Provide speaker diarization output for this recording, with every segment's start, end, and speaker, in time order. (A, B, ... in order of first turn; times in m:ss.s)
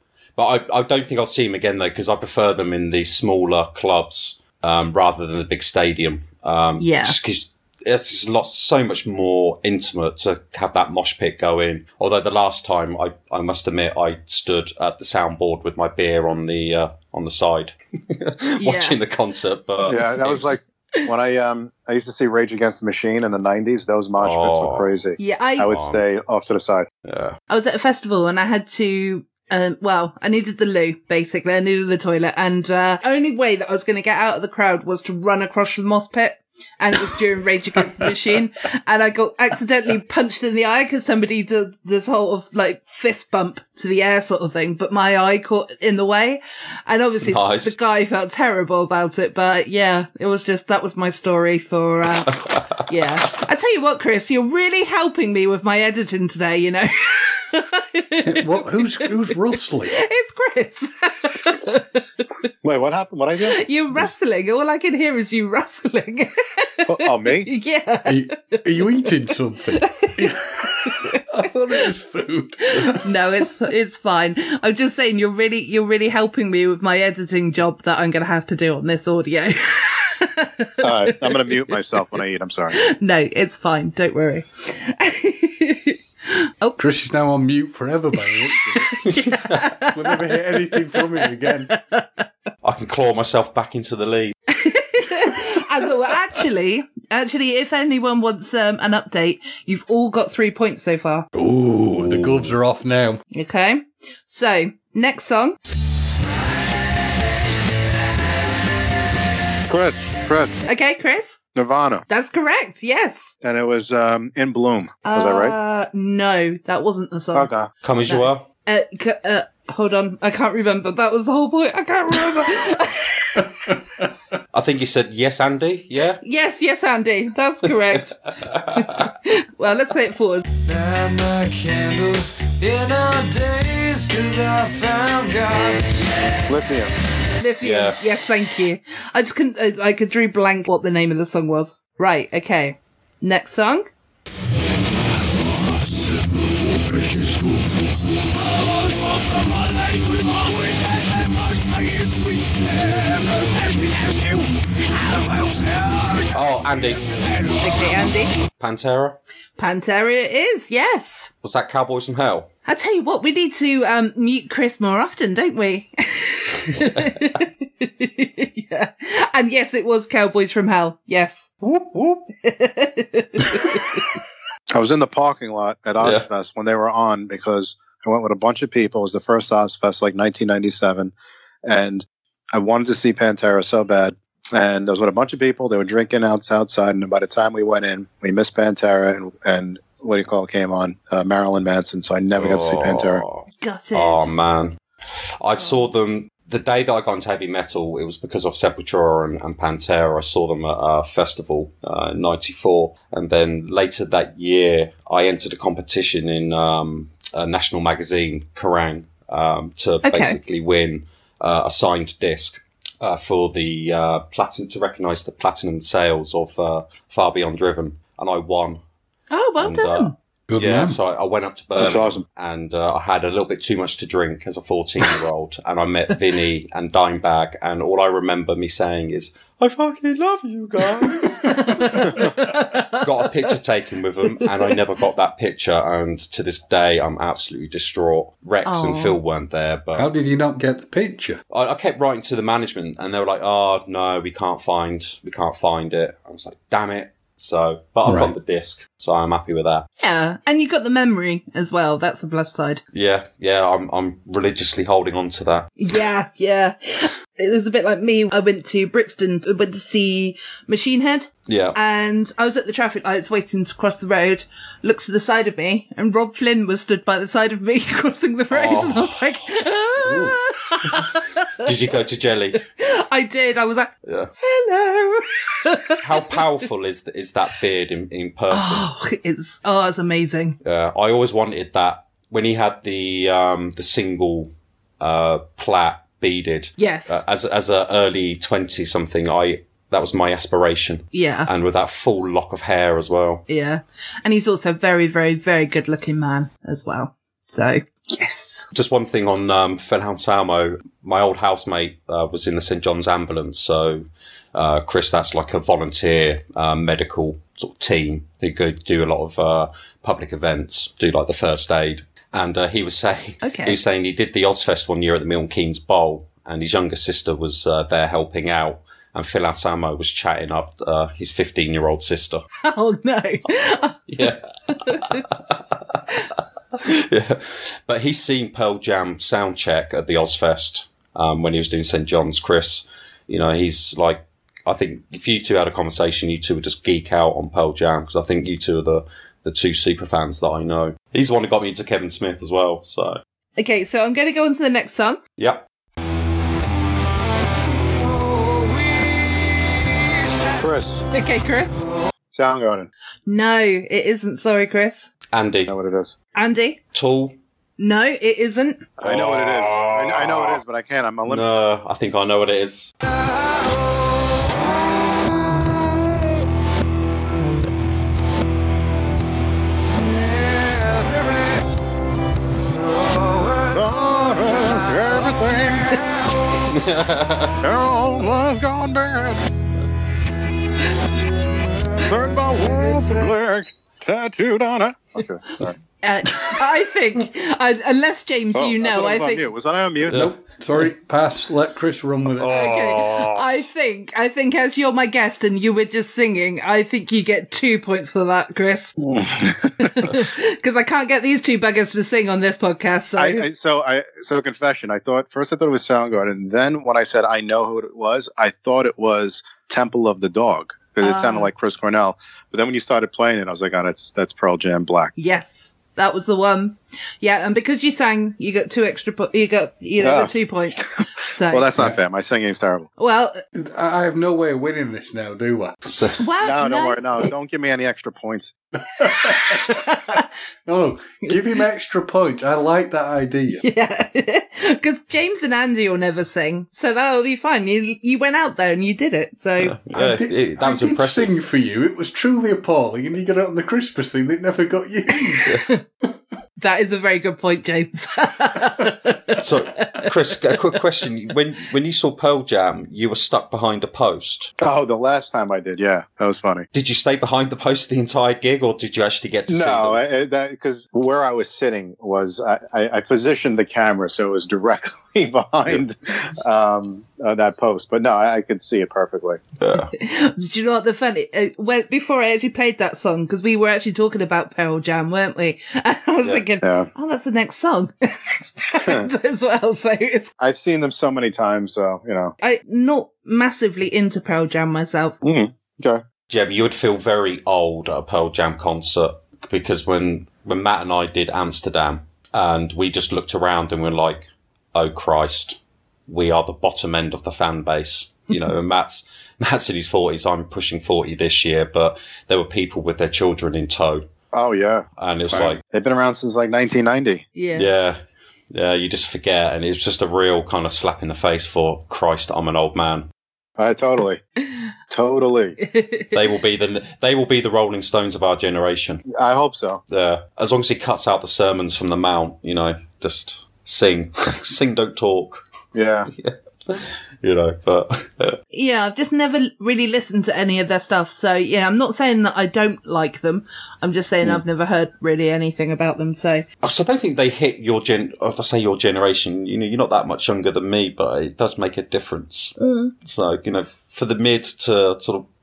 0:00.4-0:20.6 A
0:06.8-0:07.2 B
0:18.6-0:19.0 B
0:19.8-0:26.9 C
0:24.2-0:24.9 A
0:25.2-0:25.7 B
0:25.7-0:26.0 A
0:27.0-0:27.4 A
0:27.5-1:02.2 B
0:47.2-0:47.7 A
0:58.2-1:00.0 D
1:02.6-1:03.6 C
1:03.4-1:09.1 B
1:06.8-1:07.5 C
1:08.0-1:13.0 D
1:09.7-1:11.2 B
1:12.8-1:21.6 B
1:20.8-1:22.8 C
1:22.7-1:26.8 B
1:26.8-1:28.9 D
1:28.2-1:32.2 B
1:29.9-1:31.7 D
1:32.6-1:34.4 A
1:34.5-1:41.3 B
1:41.3-1:43.2 D
1:42.1-1:42.4 A
1:43.3-1:45.6 B
1:49.7-1:50.6 C
1:50.6-1:51.4 B
1:51.5-1:52.0 C
1:52.1-1:53.3 B
1:53.4-1:55.6 C
1:55.0-1:57.5 B
1:57.3-1:57.7 C
1:57.8-1:58.4 A
1:58.1-2:03.7 B
2:04.5-2:06.2 A
2:06.2-2:08.2 B
2:08.4-2:09.1 A
2:08.7-2:10.4 B
2:10.6-2:16.0 E
2:16.5-2:16.9 C
2:17.4-2:23.9 B
2:17.6-2:18.0 A
2:25.5-2:27.8 E
2:28.5-2:36.3 E
2:36.3-2:37.2 A
2:37.2-2:37.6 E
2:37.6-2:38.3 B
2:38.6-2:39.2 A
2:39.6-2:41.3 B
2:41.4-2:42.5 A
2:42.6-2:51.5 B
2:46.7-2:47.1 A
2:51.6-2:52.2 A
2:52.4-2:54.0 B
2:54.7-3:01.1 C
2:56.0-2:56.2 A
3:01.6-3:13.2 C
3:12.4-3:14.8 A
3:13.6-3:14.4 B
3:15.4-3:38.8 A
3:30.0-3:30.4 B
3:39.3-3:40.1 B
3:39.6-3:52.3 A
3:40.5-3:41.0 D
3:41.8-3:42.2 C
3:51.4-3:53.0 B
3:52.9-4:00.1 A
3:58.6-3:59.1 B
3:59.9-4:01.4 D
4:01.5-4:09.8 A
4:08.0-4:08.3 D
4:10.0-4:12.8 B
4:12.9-4:15.7 A
4:15.8-4:31.7 B
4:21.5-4:21.8 A
4:28.5-4:29.4 A
4:30.1-4:30.3 D
4:31.6-4:32.6 A
4:32.8-4:36.4 B
4:34.0-4:34.3 A
4:36.0-4:38.9 A
4:38.5-4:40.6 B
4:40.6-4:53.4 A
4:46.8-4:47.2 B
4:51.1-4:51.5 B
4:53.5-4:58.7 B
4:58.7-5:22.4 A
5:13.4-5:13.8 B
5:22.6-5:24.0 B
5:24.1-5:26.0 A
5:24.7-5:25.2 B
5:26.7-5:43.2 A
5:43.6-5:45.2 B
5:45.4-5:45.6 A
5:48.0-5:49.7 E
5:50.6-5:51.0 C
5:51.1-5:51.7 B
5:52.3-5:52.9 C
5:53.2-5:55.1 B
5:55.3-5:55.7 A
5:55.7-5:56.1 C
5:56.4-5:56.8 B
5:56.9-5:57.4 A
5:57.8-5:58.8 B
5:59.0-6:01.4 C
5:59.0-6:00.6 A
6:01.2-6:02.9 A
6:13.7-6:16.0 C
6:16.7-6:17.6 A
6:17.6-6:19.5 C
6:22.0-6:25.7 C
6:26.0-6:29.5 B
6:28.5-6:30.2 C
6:30.1-6:33.0 D
6:32.4-6:38.9 B
6:39.0-6:39.9 C
6:39.8-6:43.4 B
6:43.2-6:55.1 C
6:51.0-6:51.5 B
6:55.2-7:01.7 B
7:00.0-7:00.3 C
7:01.5-7:02.9 C
7:03.0-7:03.4 B
7:03.5-7:05.7 D
7:05.8-7:06.2 A
7:06.2-7:07.2 B
7:06.4-7:08.5 C
7:09.0-7:09.8 D
7:09.0-7:10.2 B
7:10.6-7:13.6 D
7:13.6-7:19.7 B
7:19.6-7:21.3 A
7:19.9-7:25.5 D
7:25.2-7:25.8 B
7:26.6-7:30.1 B
7:29.4-7:34.5 A
7:34.6-7:36.7 C
7:36.7-7:40.0 A
7:39.5-7:49.4 C
7:49.6-7:49.9 A
7:49.9-8:00.3 B
7:56.6-7:56.9 C
7:58.8-7:59.1 C
8:00.4-8:02.3 C
8:02.4-8:05.2 B
8:05.2-8:06.0 C
8:06.3-8:15.6 A
8:16.1-8:24.0 A
8:24.3-8:24.8 C
8:25.0-8:25.6 A
8:25.6-8:27.2 C
8:27.3-8:27.7 B
8:27.5-8:28.0 A
8:28.5-8:33.1 A
8:33.6-8:34.2 C
8:34.9-8:35.6 C
8:35.6-8:36.1 B
8:36.1-8:39.0 A
8:39.1-8:39.8 C
8:39.9-8:45.4 A
8:45.7-8:46.1 C
8:46.1-8:48.4 A
8:48.5-8:56.4 B
8:56.6-9:05.3 A
9:02.6-9:02.9 B